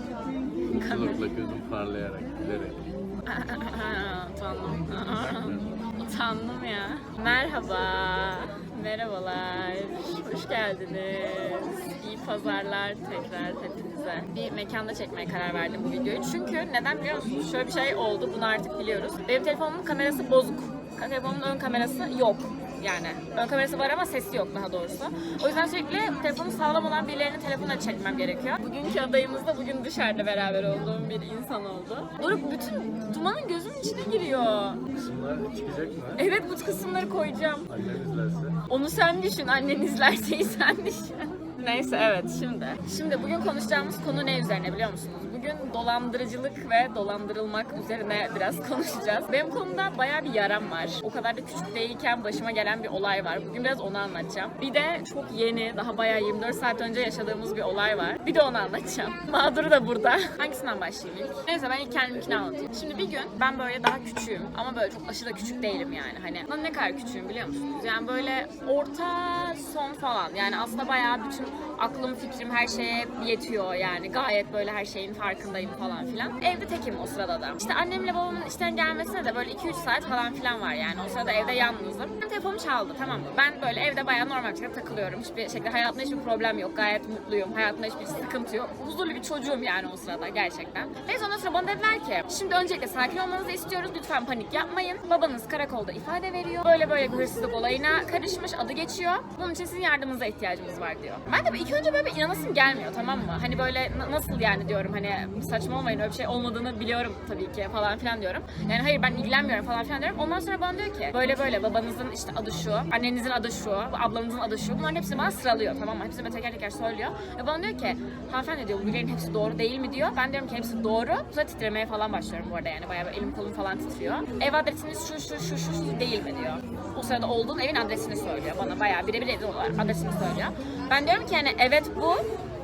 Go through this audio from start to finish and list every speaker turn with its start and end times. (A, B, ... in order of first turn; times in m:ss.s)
0:00.7-0:02.9 A
0:00.8-0:01.3 B
0:03.3-0:34.8 B
0:05.2-0:05.7 A
0:34.9-0:36.2 A
0:36.2-0:37.7 B
0:37.7-0:38.6 A
0:38.7-2:12.2 B